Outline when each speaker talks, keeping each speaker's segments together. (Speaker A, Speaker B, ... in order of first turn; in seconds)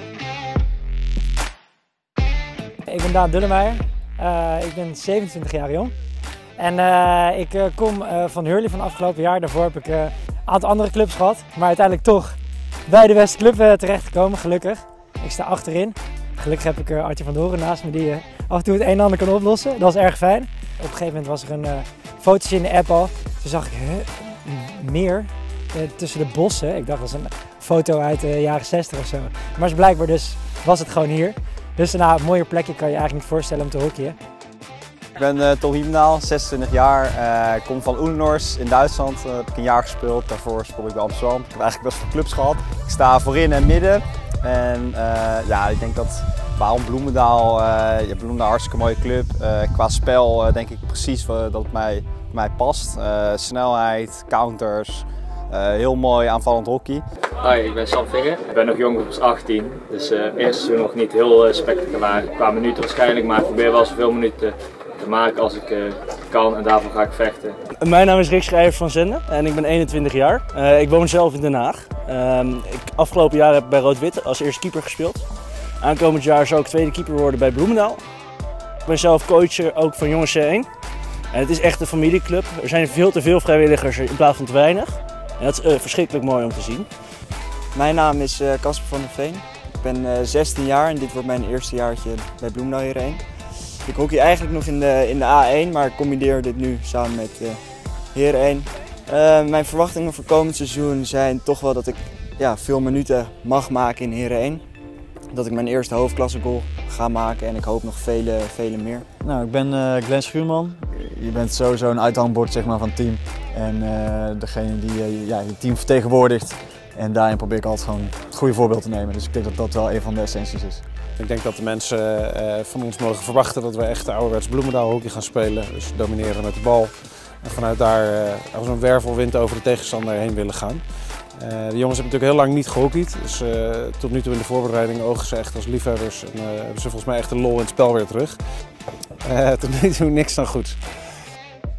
Speaker A: 2.9-5.9, 6.6-12.3, 12.9-34.2
Speaker B: 35.1-57.0
Speaker C: 57.4-67.5
Speaker D: 67.8-78.0, 78.8-80.7, 81.3-86.9
Speaker E: 87.7-97.6, 98.1-104.6, 105.3-109.1
Speaker F: 109.2-120.8
Speaker G: 121.2-138.4, 139.2-141.2